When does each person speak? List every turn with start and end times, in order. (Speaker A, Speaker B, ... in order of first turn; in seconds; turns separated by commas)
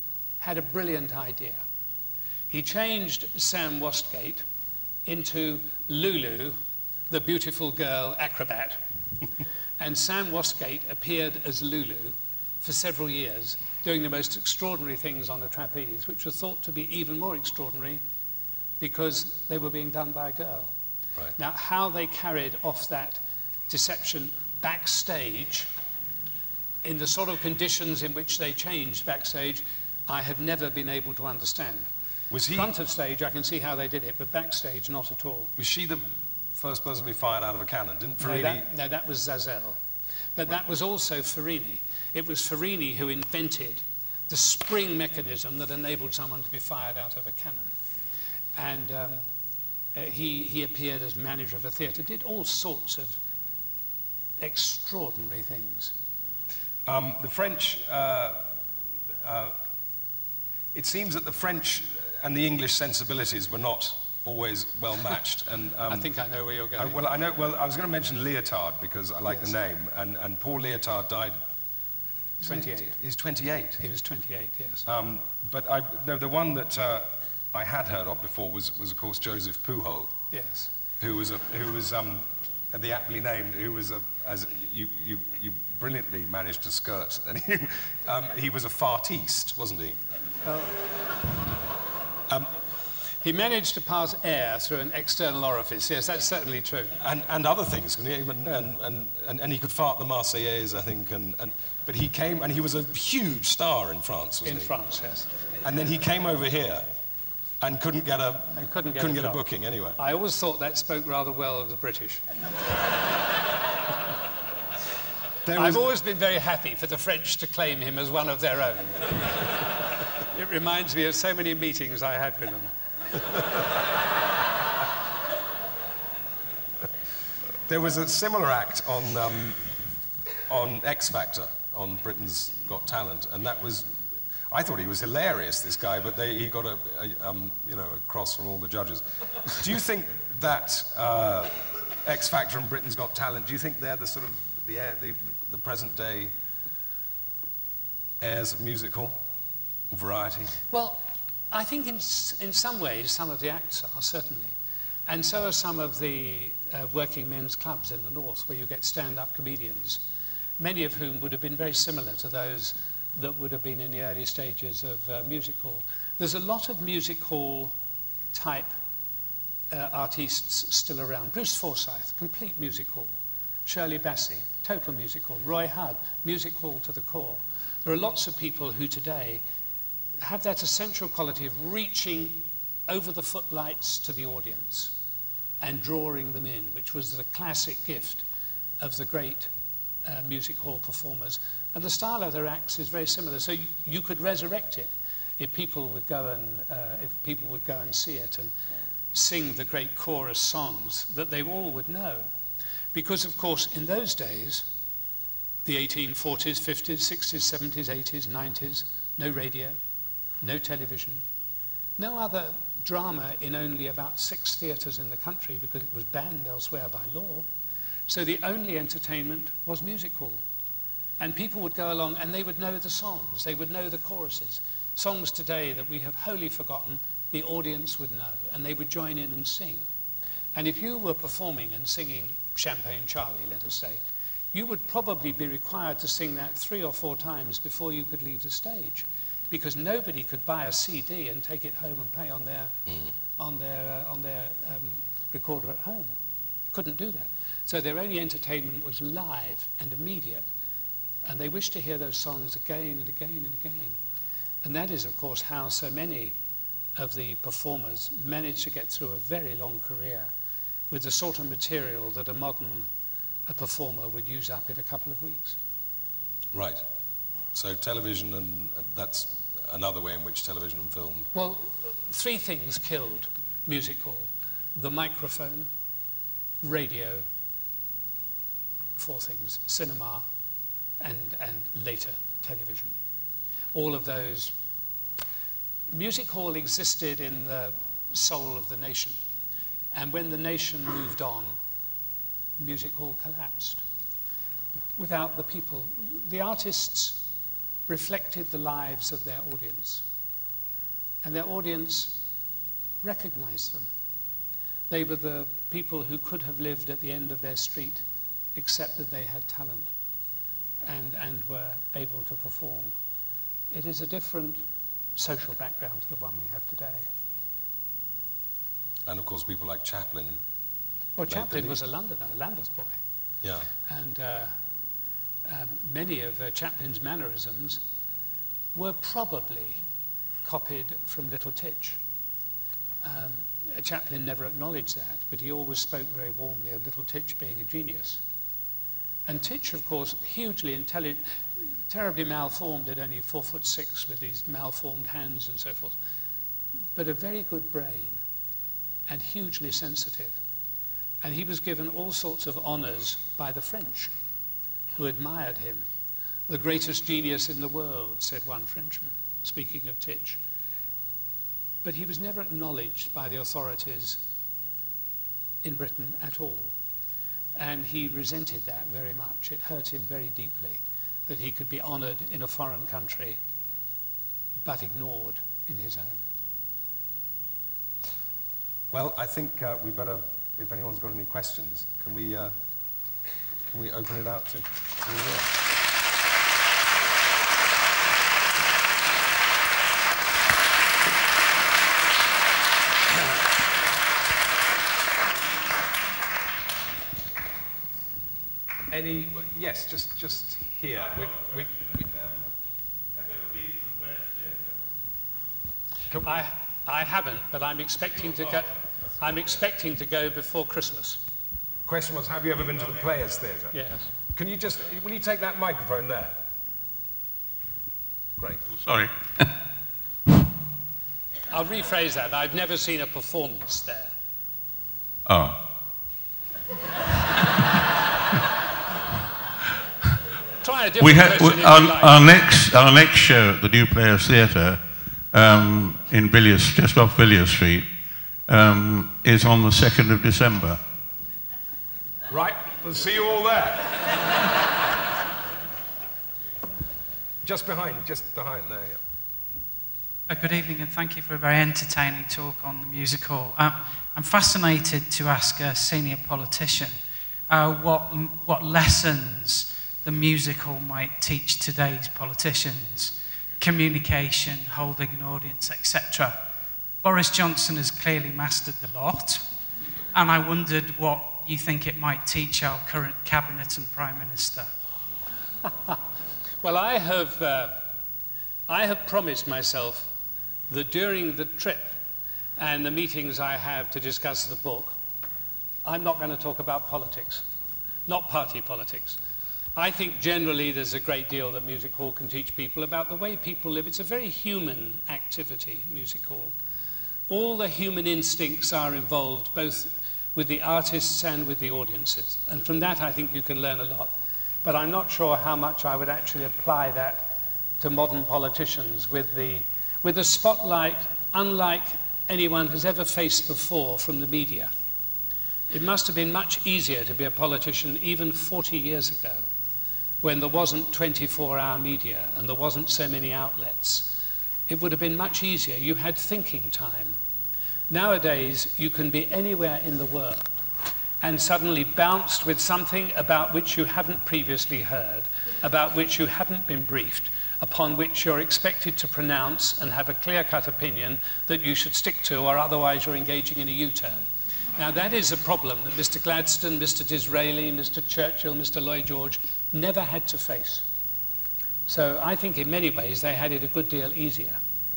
Speaker A: 0.4-1.6, Speaker A: 2.5-4.4, Speaker A: 5.0-6.6, Speaker A: 7.1-8.8, Speaker A: 9.8-18.0, Speaker A: 18.8-20.7, Speaker A: 21.4-25.7, Speaker A: 26.8-31.9, Speaker B: 32.3-32.7, Speaker A: 32.5-35.5, Speaker B: 35.6-38.6, Speaker A: 38.2-39.8, Speaker A: 40.3-47.7, Speaker A: 48.5-49.2, Speaker A: 49.9-53.2, Speaker A: 54.4-55.9, Speaker B: 56.9-58.4, Speaker B: 59.2-59.6, Speaker B: 60.7-66.1, Speaker A: 65.9-67.0, Speaker B: 66.8-71.4, Speaker B: 72.4-73.8, Speaker A: 72.4-73.0, Speaker A: 73.8-74.8, Speaker B: 74.8-80.1, Speaker A: 80.3-80.7, Speaker B: 81.0-90.0, Speaker A: 90.4-90.8, Speaker A: 93.2-96.9, Speaker B: 97.0-104.7, Speaker A: 104.4-105.3, Speaker B: 105.6-106.9, Speaker B: 107.6-110.0, Speaker A: 108.5-109.4, Speaker A: 110.0-112.2, Speaker B: 115.4-115.8, Speaker A: 115.5-119.2, Speaker A: 120.3-122.7, Speaker B: 127.7-129.7, Speaker B: 130.5-133.9, Speaker B: 134.5-146.3, Speaker B: 148.2-149.2, Speaker B: 149.9-150.6, Speaker A: 150.7-154.5, Speaker A: 155.1-160.0, Speaker A: 160.6-167.7, Speaker A: 168.3-168.7, Speaker A: 169.7-173.1, Speaker A: 173.7-179.4, Speaker A: 180.2-184.9, Speaker A: 185.6-188.2, Speaker A: 188.8-189.5, Speaker A: 190.0-198.5, Speaker A: 199.1-202.2, Speaker A: 202.9-204.7, Speaker A: 205.6-209.8, Speaker A: 210.4-211.2, Speaker A: 212.0-217.4, Speaker A: 218.1-220.4, Speaker A: 221.2-229.9, Speaker A: 230.5-234.0, Speaker A: 234.5-242.7, Speaker A: 243.4-246.1, Speaker A: 246.7-250.5, Speaker A: 251.2-254.0, Speaker A: 254.6-256.3, Speaker A: 256.9-260.3, Speaker A: 260.9-262.9, Speaker A: 263.5-265.6, Speaker B: 266.5-266.8, Speaker B: 267.5-271.3, Speaker A: 271.3-275.7, Speaker A: 276.6-277.2, Speaker A: 279.0-280.2, Speaker A: 281.0-282.9, Speaker A: 283.7-284.5, Speaker A: 285.9-289.2, Speaker A: 289.9-291.6, Speaker A: 292.6-293.8, Speaker A: 295.0-297.2, Speaker A: 297.9-300.0, Speaker A: 301.2-302.2, Speaker A: 303.0-303.9, Speaker A: 304.9-308.0, Speaker A: 308.5-309.9, Speaker A: 310.8-312.9, Speaker A: 313.7-314.6, Speaker A: 315.1-317.1, Speaker B: 319.1-320.4, Speaker A: 321.2-323.0, Speaker B: 321.3-321.8, Speaker B: 323.4-323.7, Speaker A: 323.9-324.6, Speaker A: 325.4-327.8, Speaker A: 328.7-329.8, Speaker A: 330.4-332.0, Speaker A: 333.0-338.2, Speaker A: 339.3-341.2, Speaker A: 341.9-346.0, Speaker A: 346.9-348.2, Speaker A: 349.1-350.4, Speaker A: 351.2-354.1, Speaker A: 354.9-355.8, Speaker A: 356.5-360.4, Speaker A: 361.8-364.2, Speaker A: 365.6-366.7, Speaker A: 367.6-373.4, Speaker A: 374.6-376.2, Speaker B: 378.9-382.5, Speaker B: 383.7-385.5, Speaker B: 398.9-402.0, Speaker B: 406.1-406.4, Speaker A: 406.2-411.2, Speaker B: 411.9-413.8, Speaker A: 413.7-414.1, Speaker B: 414.3-416.4, Speaker C: 418.7-419.4, Speaker A: 421.5-424.1, Speaker C: 425.2-425.7, Speaker A: 430.6-432.4, Speaker C: 431.0-437.9, Speaker C: 438.5-440.8, Speaker B: 442.3-444.0, Speaker B: 447.4-449.0, Speaker D: 450.3-456.9, Speaker D: 457.5-466.4, Speaker D: 467.0-469.4, Speaker D: 470.1-474.7, Speaker A: 475.6-476.0, Speaker A: 476.6-477.8, Speaker A: 478.7-480.1, Speaker A: 480.7-481.9, Speaker A: 482.6-485.0, Speaker A: 485.8-487.4, Speaker A: 488.1-489.2, Speaker A: 489.8-496.5, Speaker A: 497.3-504.1, Speaker A: 504.6-514.7, Speaker A: 515.7-519.4, Speaker A: 520.2-524.1, Speaker A: 524.7-527.2, Speaker A: 527.9-530.5, Speaker A: 531.2-550.8, Speaker A: 551.9-554.6